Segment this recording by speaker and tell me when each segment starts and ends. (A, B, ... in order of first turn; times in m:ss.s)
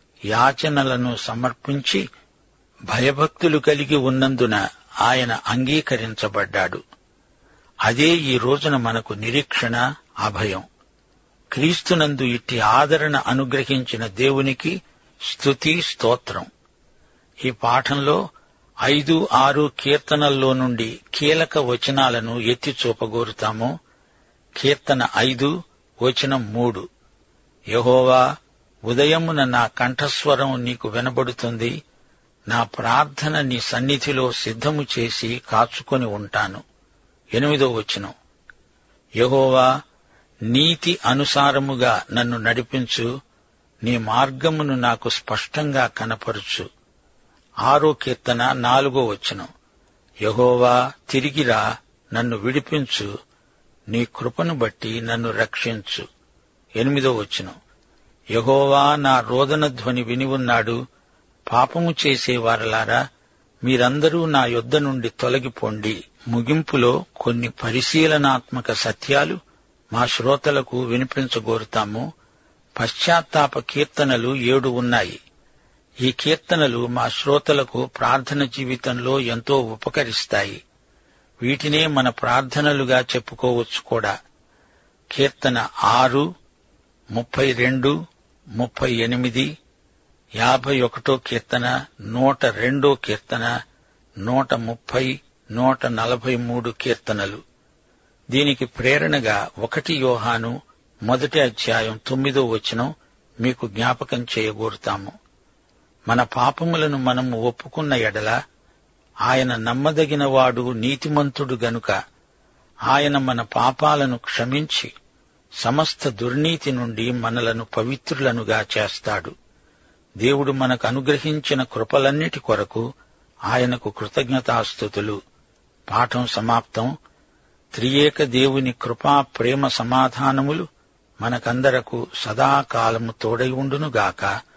0:00.3-0:02.0 A
0:02.9-0:06.8 A
0:07.9-0:10.6 A
0:11.5-0:14.8 A
0:15.3-0:16.5 A
0:17.4-0:18.2 A
0:18.9-0:23.7 A
0:24.6-0:25.5 A
0:26.0-0:26.8 A
0:27.7-0:28.2 A
0:28.9-0:31.8 A
0:32.5-0:36.6 A
0:37.3-0:38.1 A
0:39.2-0:39.7 A
0:40.5-0:43.1 A
0:43.8-0:46.6 A
0:47.6-0:49.5 A
0:50.2-0:53.1 A
0:53.9-0:56.0 A
0:56.8-0:57.5 A
0:58.4-1:00.8 A
1:01.5-1:03.0 A
1:03.6-1:09.4 A
1:09.9-1:12.1 A
1:12.8-1:15.2 A
1:16.0-1:20.6 A
1:21.4-1:24.1 A
1:25.1-1:26.2 A
1:27.1-1:27.9 A
1:28.6-1:29.5 A
1:30.4-1:33.5 A
1:34.2-1:37.4 A
1:38.3-1:42.9 A
1:43.4-1:45.1 A
1:46.1-1:48.4 A
1:49.2-1:52.0 A
1:52.9-1:54.9 A
1:55.6-1:59.3 A
2:00.2-2:02.8 A
2:03.5-2:05.2 A
2:05.9-2:06.9 A
2:07.7-2:10.6 A
2:11.2-2:14.3 A